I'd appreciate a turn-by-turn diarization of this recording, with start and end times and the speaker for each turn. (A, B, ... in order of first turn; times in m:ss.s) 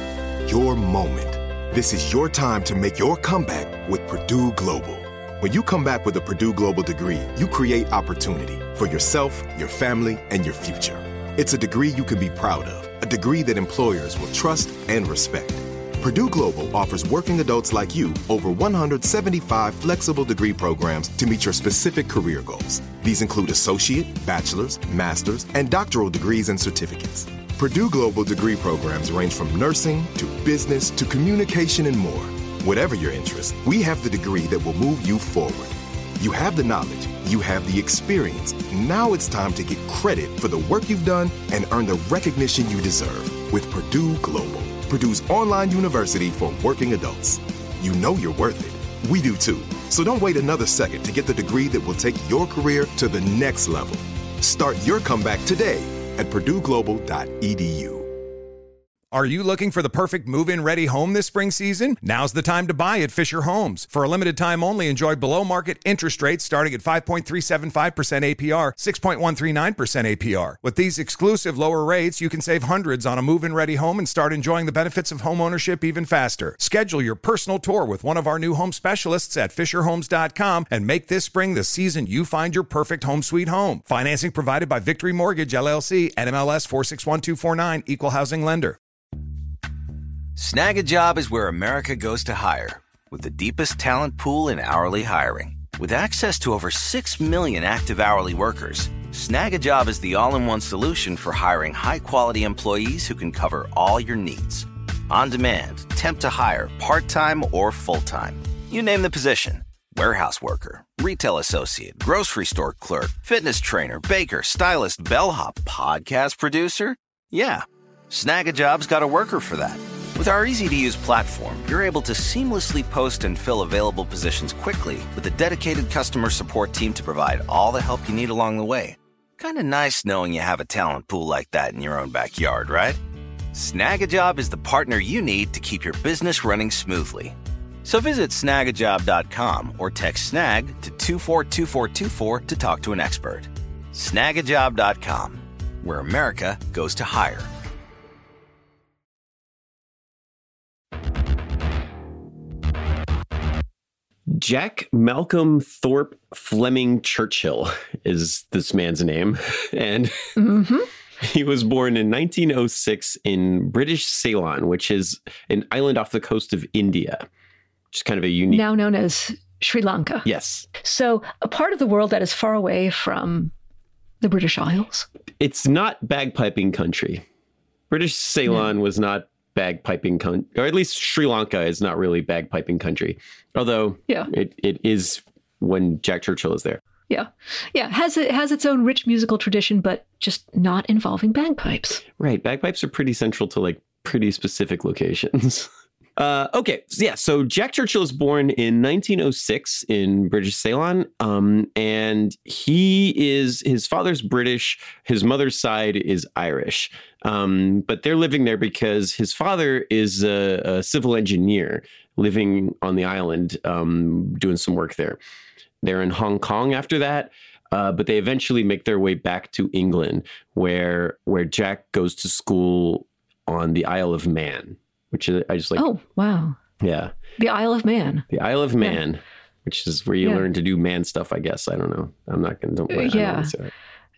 0:00.4-0:58.1 A
0:59.1-1:28.8 B
1:30.4-2:13.0 C
2:13.5-2:27.5 C
2:34.3-2:40.4 D
2:40.4-2:40.9 E
2:41.2-2:47.2 D
2:47.9-2:48.6 D
2:48.5-2:50.2 E
2:50.2-2:50.7 D
2:50.8-2:53.5 E
2:54.2-2:55.1 E
2:55.4-2:57.2 D
2:57.9-3:06.8 D
3:07.1-3:12.0 E
3:12.2-3:35.2 D
3:35.8-3:45.8 D
3:45.8-3:46.6 E
3:46.8-3:47.1 D
3:47.4-3:48.3 E
3:48.3-3:53.7 D
3:52.9-3:53.5 E